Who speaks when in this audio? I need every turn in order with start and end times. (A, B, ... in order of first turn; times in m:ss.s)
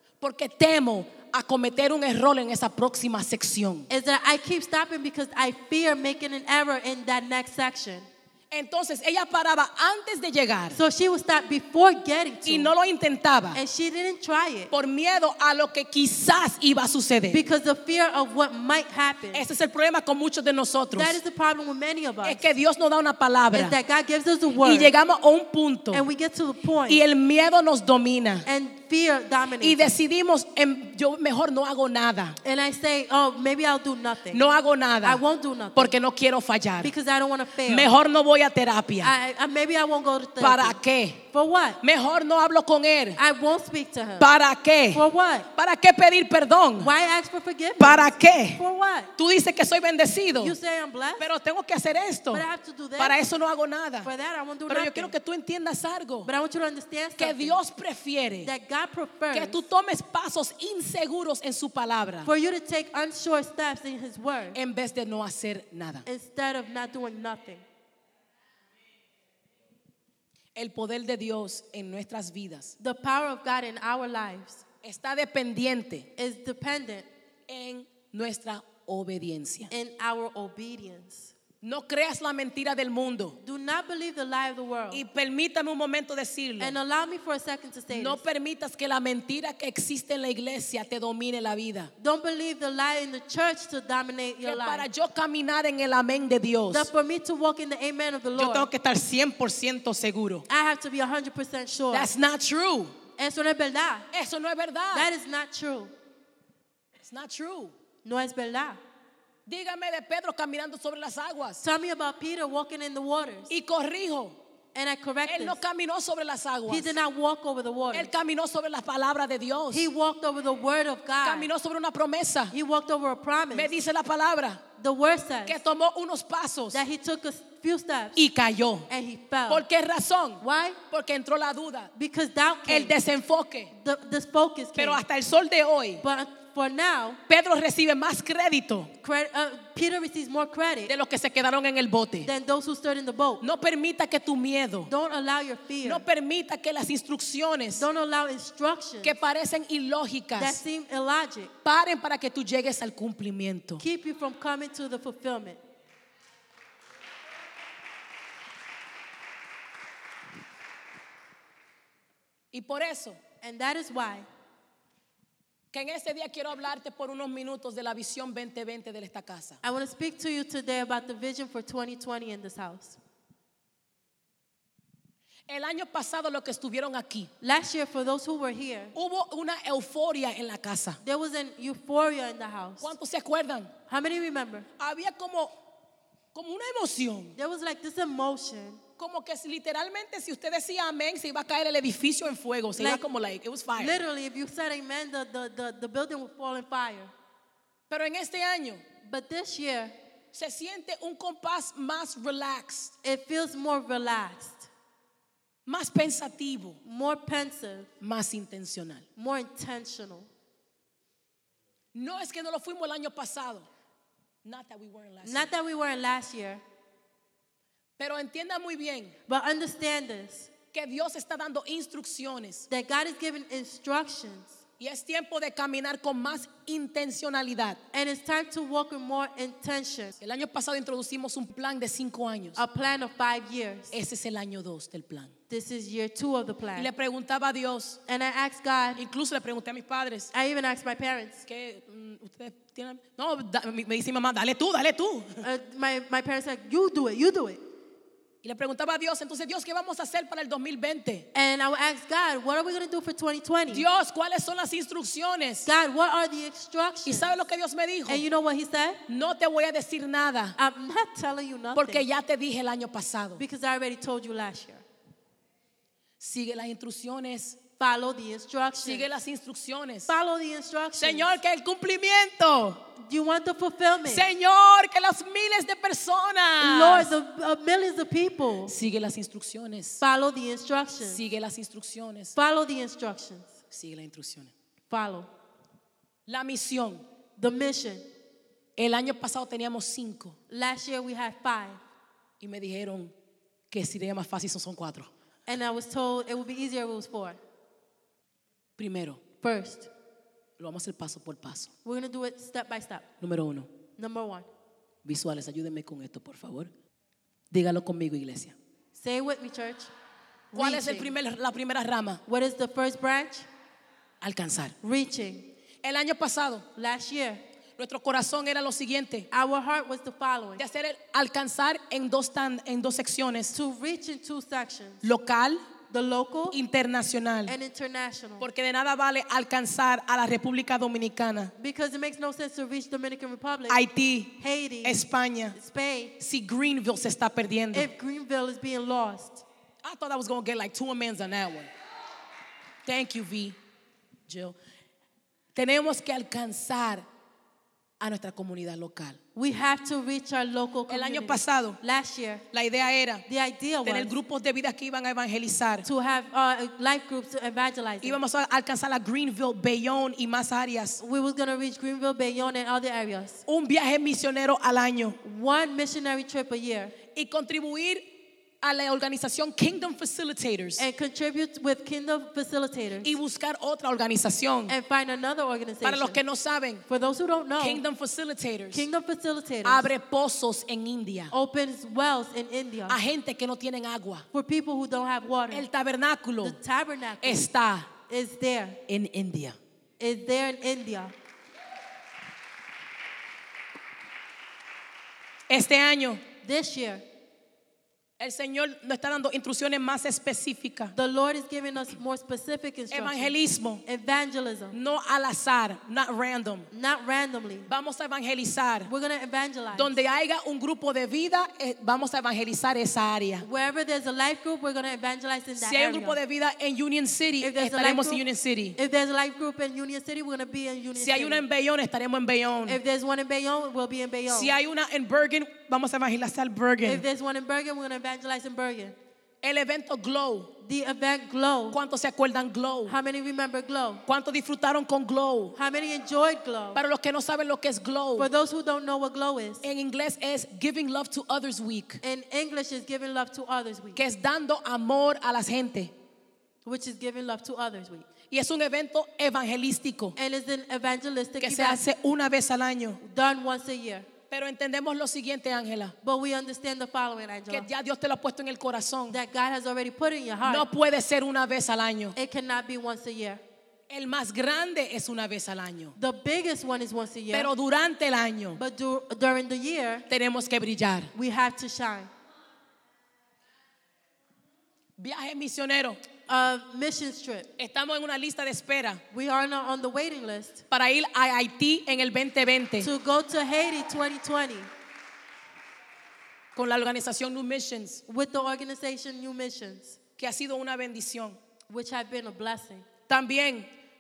0:00.2-0:03.9 A
0:03.9-0:08.1 B
0:08.5-0:10.8 A
0:10.7-0:12.7 B
0:12.4-0:13.6 A
0:13.5-0:14.7 B
0:14.7-0:17.4 A
0:17.3-0:19.4 B
0:19.3-0:21.2 A
0:20.9-0:22.5 B
0:22.2-0:23.8 A
0:23.5-0:24.9 B
0:24.6-0:26.0 A
0:25.9-0:27.0 B
0:26.9-0:28.5 A
0:28.5-0:29.9 B
0:29.6-0:32.4 A
0:32.4-0:34.4 B
0:34.3-0:35.2 A
0:35.0-0:35.9 B
0:35.8-0:36.9 A
0:36.8-0:37.9 B
0:37.7-0:39.1 A
0:39.0-0:41.8 B
0:40.4-0:41.2 A
0:41.8-0:43.2 A
0:43.2-0:44.3 B
0:44.2-0:46.9 A
0:44.9-0:45.5 B
0:46.8-0:49.1 B
0:47.8-0:48.6 A
0:49.2-0:50.6 A
0:50.4-0:51.3 B
0:51.2-0:52.4 A
0:52.3-0:53.2 B
0:53.0-0:54.1 A
0:54.0-0:55.1 B
0:54.7-0:56.3 A
0:56.2-0:57.6 B
0:57.2-0:58.5 A
0:58.4-0:59.6 B
0:59.3-1:02.3 A
1:02.2-1:04.6 B
1:04.5-1:06.1 A
1:06.1-1:07.6 B
1:10.6-1:12.8 A
1:12.8-1:14.6 B
1:14.8-1:16.1 A
1:16.2-1:17.1 B
1:17.5-1:19.7 A
1:19.7-1:21.3 B
1:21.6-1:23.4 A
1:23.4-1:25.0 B
1:24.9-1:26.8 A
1:26.6-1:28.2 B
1:27.9-1:31.9 A
1:32.0-1:34.9 B
1:34.4-1:36.9 A
1:36.7-1:38.7 B
1:38.4-1:40.5 A
1:40.5-1:42.1 B
1:41.9-1:43.0 A
1:43.2-1:44.1 B
1:44.1-1:45.1 A
1:44.9-1:45.9 B
1:47.0-1:47.7 A
1:48.0-1:48.8 B
1:49.5-1:51.6 A
1:51.6-1:53.5 B
1:53.5-1:54.4 A
1:54.7-1:55.6 B
1:55.3-1:57.0 A
1:56.7-1:58.1 B
1:57.9-1:59.9 A
1:59.7-2:01.5 B
2:01.2-2:02.6 A
2:02.5-2:03.8 B
2:03.5-2:04.6 A
2:04.8-2:05.6 B
2:05.5-2:06.8 A
2:06.7-2:08.2 B
2:08.2-2:08.9 A
2:08.9-2:09.6 B
2:09.5-2:11.9 A
2:10.4-2:10.8 B
2:12.0-2:13.0 B
2:12.7-2:13.7 A
2:13.7-2:15.0 B
2:14.8-2:16.0 A
2:16.0-2:17.2 B
2:17.3-2:18.9 A
2:19.0-2:20.9 B
2:20.9-2:22.3 A
2:22.2-2:23.4 B
2:23.4-2:24.9 A
2:24.9-2:26.0 B
2:25.8-2:27.9 A
2:27.8-2:29.2 B
2:29.0-2:30.6 A
2:30.4-2:31.5 B
2:31.6-2:33.8 A
2:33.8-2:35.6 B
2:42.5-2:43.2 A
2:43.4-2:44.3 B
2:45.7-2:49.6 A
2:49.6-2:53.0 B
2:55.5-2:57.3 A
2:57.4-2:58.9 B
2:59.0-3:01.0 A
3:01.0-3:02.9 B
3:02.8-3:03.7 A
3:03.9-3:04.7 B
3:04.8-3:05.5 A
3:06.3-3:07.4 A
3:07.4-3:08.8 B
3:09.0-3:14.0 A
3:12.8-3:13.0 B
3:13.8-3:17.1 B
3:17.9-3:18.8 A
3:19.0-3:19.9 B
3:20.3-3:22.9 A
3:23.0-3:24.7 B
3:25.7-3:26.8 A
3:26.8-3:27.9 B
3:28.0-3:29.0 A
3:29.2-3:30.3 B
3:31.9-3:33.7 A
3:34.4-3:35.5 A
3:35.2-3:36.6 B
3:38.0-3:39.2 A
3:39.3-3:40.5 B
3:40.7-3:42.7 A
3:42.7-3:44.6 B
3:44.8-3:47.8 A
3:47.9-3:50.2 B
3:50.2-3:52.6 A
3:52.6-3:53.9 B
3:53.9-3:55.3 A
3:55.5-3:56.9 B
3:56.8-3:58.0 A
3:58.1-3:59.0 B
3:59.0-4:00.3 A
4:00.3-4:01.4 B
4:01.5-4:05.4 A
4:05.4-4:07.6 B
4:08.4-4:11.3 A
4:11.3-4:13.9 B
4:13.7-4:15.7 A
4:15.7-4:17.4 B
4:17.0-4:18.2 A
4:18.1-4:19.0 B
4:19.1-4:20.6 A
4:20.6-4:22.0 B
4:21.8-4:23.4 A
4:23.4-4:24.8 B
4:26.2-4:27.6 A
4:27.8-4:29.1 B
4:28.8-4:30.1 A
4:30.1-4:31.4 B
4:31.0-4:32.8 A
4:33.0-4:34.3 B
4:34.1-4:37.1 A
4:36.6-4:38.8 B
4:38.7-4:40.0 A
4:40.0-4:41.2 B
4:41.0-4:42.4 A
4:42.4-4:43.6 B
4:43.7-4:44.5 A
4:44.9-4:45.3 B
4:46.3-4:47.0 A
4:47.4-4:48.1 B
4:48.8-4:50.4 A
4:50.5-4:51.8 B
4:52.4-4:53.1 A
4:53.7-4:55.1 A
4:55.5-4:57.4 B
4:58.8-4:59.2 A
4:59.4-4:59.9 B
5:00.6-5:01.7 A
5:01.8-5:03.1 B
5:03.2-5:03.7 A
5:04.0-5:04.5 B
5:05.0-5:06.7 A
5:07.5-5:08.6 A
5:08.9-5:09.9 B
5:10.5-5:11.1 B
5:10.6-5:12.2 A
5:12.3-5:13.5 B
5:14.2-5:14.8 A
5:14.8-5:15.5 B
5:15.8-5:16.7 A
5:16.8-5:17.4 B
5:17.8-5:19.3 A
5:19.3-5:20.6 B
5:20.6-5:23.5 A
5:23.5-5:25.0 B
5:25.0-5:25.6 A
5:25.9-5:26.6 B
5:26.5-5:27.6 A
5:27.5-5:28.5 B
5:28.4-5:31.5 A
5:31.6-5:33.8 B
5:33.7-5:35.6 A
5:34.4-5:35.0 B
5:35.5-5:36.2 B
5:36.2-5:37.9 A
5:37.7-5:39.4 B
5:39.8-5:41.7 A
5:42.9-5:43.6 A
5:44.3-5:44.6 A
5:45.6-5:47.1 A
5:48.0-5:49.2 A
5:49.4-5:52.4 B
5:50.9-5:51.8 A
5:52.5-5:53.2 A
5:53.3-5:54.2 B
5:53.8-5:55.9 A
5:55.8-5:58.2 B
5:58.0-6:01.0 A
6:01.0-6:03.4 B
6:03.5-6:05.2 A
6:05.2-6:07.0 B
6:07.1-6:08.1 A
6:08.6-6:10.8 A
6:10.8-6:13.2 B
6:13.0-6:14.8 A
6:14.7-6:16.2 B
6:15.8-6:16.8 A
6:16.9-6:17.8 B
6:17.6-6:18.9 A
6:18.7-6:19.9 B
6:19.6-6:21.3 A
6:21.3-6:23.0 B
6:22.9-6:24.3 A
6:24.3-6:25.7 B
6:25.5-6:26.6 A
6:26.4-6:27.5 B
6:27.2-6:27.9 A
6:28.0-6:28.8 B
6:28.9-6:29.6 A
6:30.0-6:31.1 B
6:35.5-6:36.2 A
6:36.4-6:37.0 B
6:38.2-6:41.0 A
6:41.0-6:44.8 B
6:42.9-6:43.8 A
6:44.7-6:46.7 A
6:46.7-6:47.7 B
6:47.7-6:48.9 A
6:48.9-6:50.0 B
6:49.7-6:53.5 A
6:53.4-6:56.2 B
6:55.6-6:58.8 A
6:57.4-6:58.2 B
6:58.8-7:01.5 B
7:01.0-7:02.8 A
7:02.7-7:04.5 B
7:04.3-7:07.0 A
7:06.8-7:09.0 B
7:09.4-7:10.5 A
7:10.6-7:11.8 B
7:11.7-7:13.0 A
7:12.9-7:14.0 B
7:14.1-7:15.6 A
7:15.6-7:16.8 B
7:16.8-7:18.3 A
7:18.2-7:19.6 B
7:19.6-7:22.0 A
7:22.0-7:24.0 B
7:24.0-7:25.9 A
7:26.6-7:28.1 B
7:28.3-7:30.2 A
7:30.2-7:31.8 B
7:31.4-7:33.0 A
7:33.0-7:34.1 B
7:34.3-7:36.0 A
7:36.0-7:37.7 B
7:37.5-7:39.2 A
7:39.1-7:40.7 B
7:40.4-7:42.2 A
7:42.2-7:43.4 B
7:43.9-7:46.0 A
7:46.0-7:47.5 B
7:47.3-7:48.6 A
7:48.6-7:50.1 B
7:50.1-7:51.1 A
7:51.2-7:52.1 B
7:55.0-7:56.0 A
7:56.3-7:57.5 B
7:57.6-7:59.0 A
7:59.1-8:00.6 B
8:00.7-8:02.9 A
8:02.8-8:04.7 B
8:06.6-8:08.0 A
8:08.1-8:10.0 B
8:10.2-8:11.4 A
8:11.7-8:12.9 B
8:13.1-8:13.7 A